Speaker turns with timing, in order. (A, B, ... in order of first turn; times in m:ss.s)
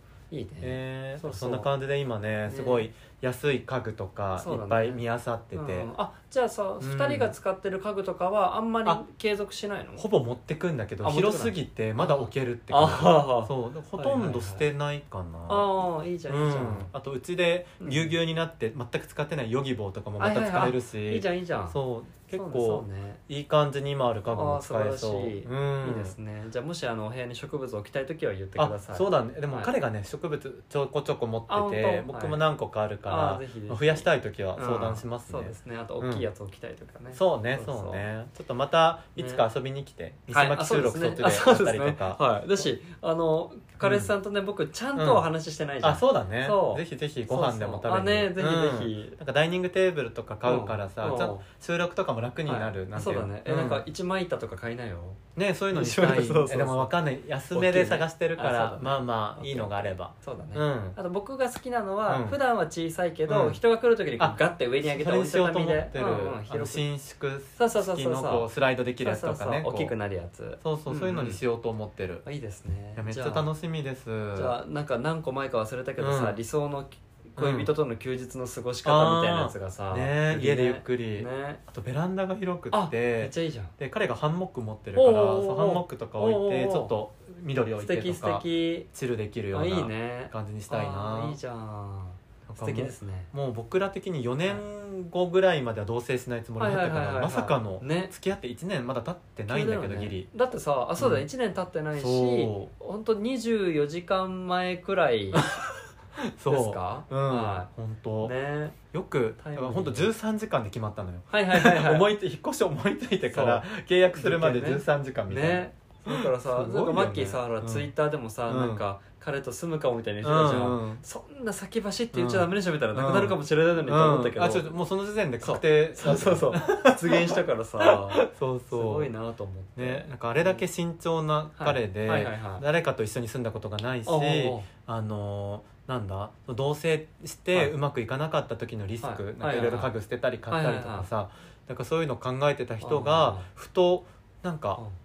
0:00.3-0:01.7 A
0:00.6-0:05.9 B
0:02.5-0:02.9 A
0:04.4-0:05.0 A
0:05.5-0:10.0 A
0:06.8-0:07.3 B
0:10.0-0:26.2 B
0:11.0-0:14.6 A
0:15.5-0:16.9 A
0:17.8-0:18.1 A
0:20.2-0:21.8 A
0:22.3-0:23.2 A
0:24.3-0:29.7 A
0:28.6-0:36.2 B
0:31.5-0:32.4 A
0:33.0-0:38.0 A
0:37.1-0:42.2 B
0:39.2-0:39.4 A
0:40.3-0:49.2 A
0:43.8-0:44.1 B
0:45.0-0:45.3 B
0:45.8-0:53.8 B
0:50.4-0:51.4 A
0:52.5-0:55.2 A
0:55.4-1:01.0 B
0:55.7-0:56.9 A
0:57.5-1:06.8 A
1:02.1-1:02.4 B
1:03.3-1:03.6 B
1:04.2-1:09.9 B
1:07.6-1:08.5 A
1:09.0-1:11.4 A
1:10.6-1:12.2 B
1:12.2-1:13.5 A
1:13.0-1:14.6 B
1:14.3-1:21.6 A
1:16.0-1:16.4 B
1:17.4-1:17.7 B
1:18.8-1:31.4 B
1:22.7-1:23.7 A
1:25.0-1:26.9 A
1:27.8-1:28.9 A
1:29.5-1:33.3 A
1:32.5-1:40.3 B
1:36.6-1:38.1 A
1:39.5-1:45.5 A
1:41.0-1:41.2 B
1:41.9-1:42.7 B
1:45.3-1:48.3 B
1:46.5-1:47.7 A
1:48.2-1:48.8 A
1:48.9-1:57.9 B
1:49.4-1:50.1 A
1:51.3-1:52.1 A
1:53.3-2:04.7 A
1:58.5-1:58.8 B
2:00.2-2:01.0 B
2:02.1-2:09.1 B
2:05.4-2:10.6 A
2:09.8-2:24.8 B
2:11.6-2:12.6 A
2:14.0-2:14.7 A
2:19.0-2:19.9 A
2:20.5-2:21.1 A
2:22.8-2:23.5 A